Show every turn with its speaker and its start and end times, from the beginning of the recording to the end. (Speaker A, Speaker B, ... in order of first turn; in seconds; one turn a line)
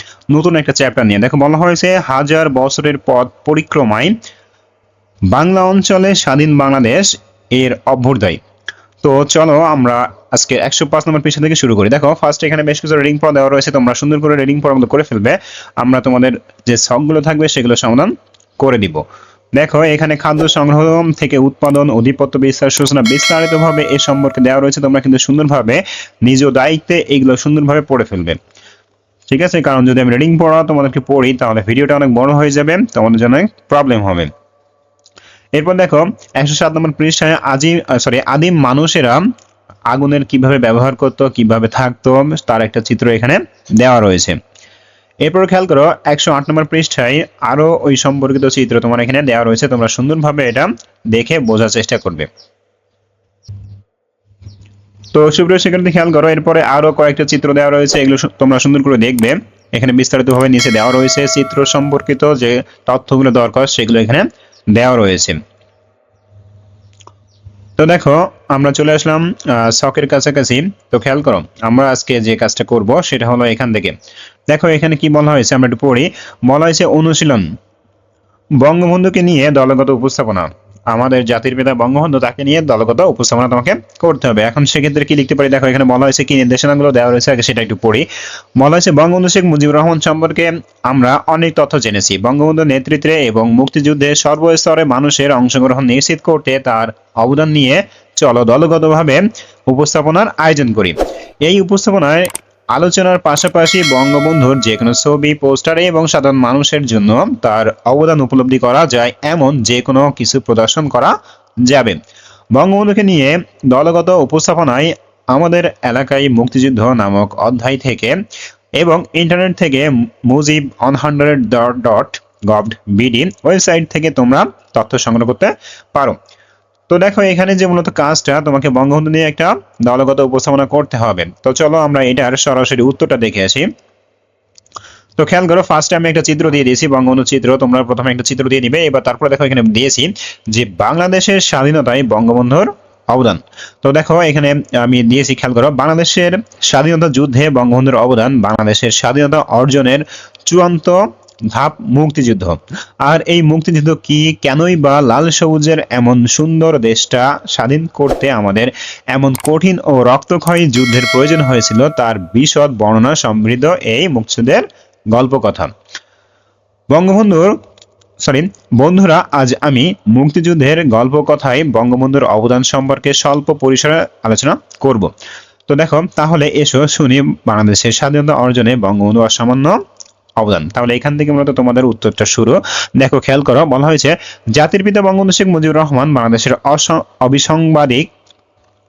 Speaker A: 0.3-4.2
Speaker A: 5.3-8.4
Speaker A: 9.0-19.0
Speaker A: 19.6-28.4
Speaker A: 29.3-34.3
Speaker A: 35.6-39.3
Speaker A: 39.9-44.4
Speaker A: 45.2-52.3
Speaker A: 55.1-65.4
Speaker A: 67.8-74.0
Speaker A: 74.5-77.5
Speaker A: 78.6-112.0
Speaker A: 112.5-118.2
Speaker A: 118.8-126.2
Speaker A: 126.9-133.7
Speaker A: 135.2-165.7
Speaker A: 166.9-167.6
Speaker A: 168.2-175.1
Speaker A: 175.7-179.8
Speaker A: 180.4-188.1